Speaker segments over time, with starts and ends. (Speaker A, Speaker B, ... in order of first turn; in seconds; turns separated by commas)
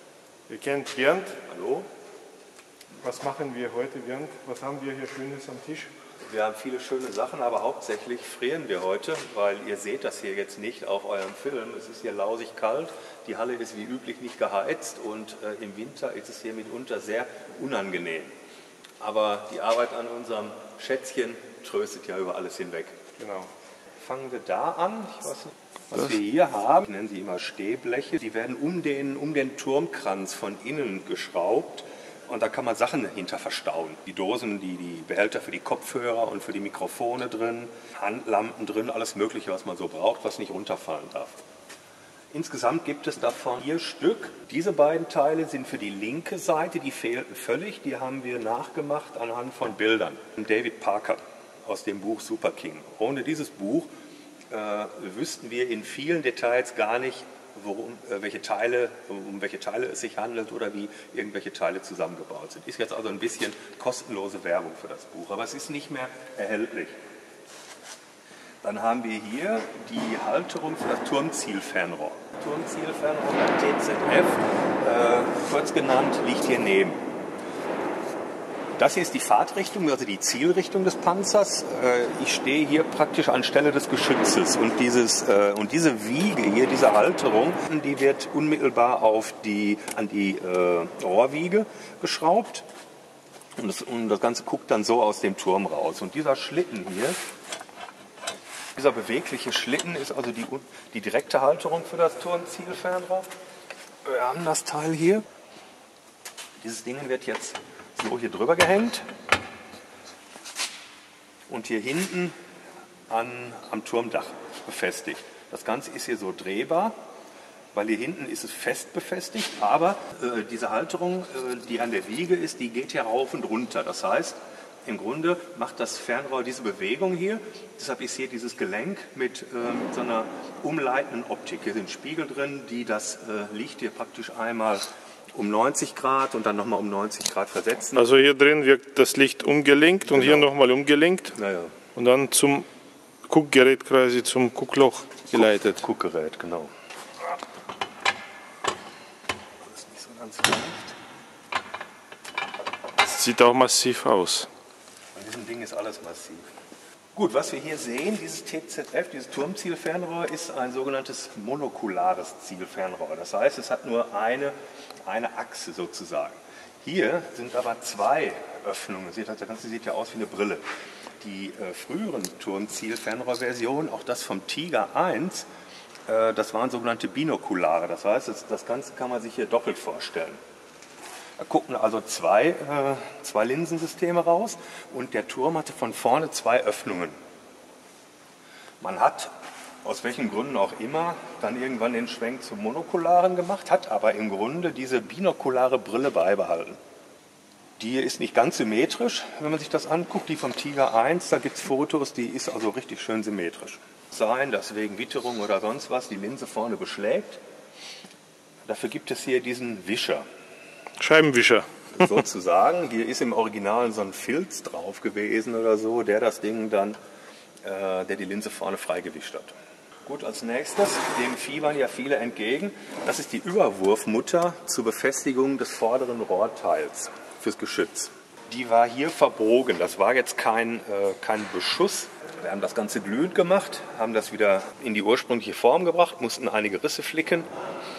Speaker A: 0.5-1.4, Speaker B: 1.5-1.9, Speaker A: 3.0-5.9, Speaker B: 6.2-18.4, Speaker B: 19.0-23.0, Speaker A: 23.2-23.5, Speaker B: 24.0-41.4, Speaker B: 42.3-53.9, Speaker B: 54.5-67.0, Speaker B: 68.6-77.0, Speaker B: 78.8-92.7, Speaker B: 93.5-97.2, Speaker B: 98.7-103.3, Speaker B: 104.0-105.2, Speaker B: 106.6-109.1, Speaker B: 111.5-112.3, Speaker B: 113.1-117.0, Speaker B: 117.7-138.0, Speaker A: 137.9-141.3, Speaker B: 140.0-140.5, Speaker B: 141.3-141.8, Speaker A: 141.9-142.7, Speaker A: 143.3-145.8, Speaker B: 145.3-146.7, Speaker B: 149.6-150.9, Speaker A: 153.0-154.5, Speaker B: 155.1-156.5, Speaker B: 157.1-170.7, Speaker B: 171.2-175.5, Speaker B: 176.1-180.4, Speaker B: 181.4-187.2, Speaker B: 188.8-189.3, Speaker B: 189.8-196.8, Speaker B: 197.8-207.4, Speaker B: 208.7-210.2, Speaker A: 211.0-211.7, Speaker B: 211.9-217.0, Speaker B: 217.6-219.5, Speaker B: 220.0-237.5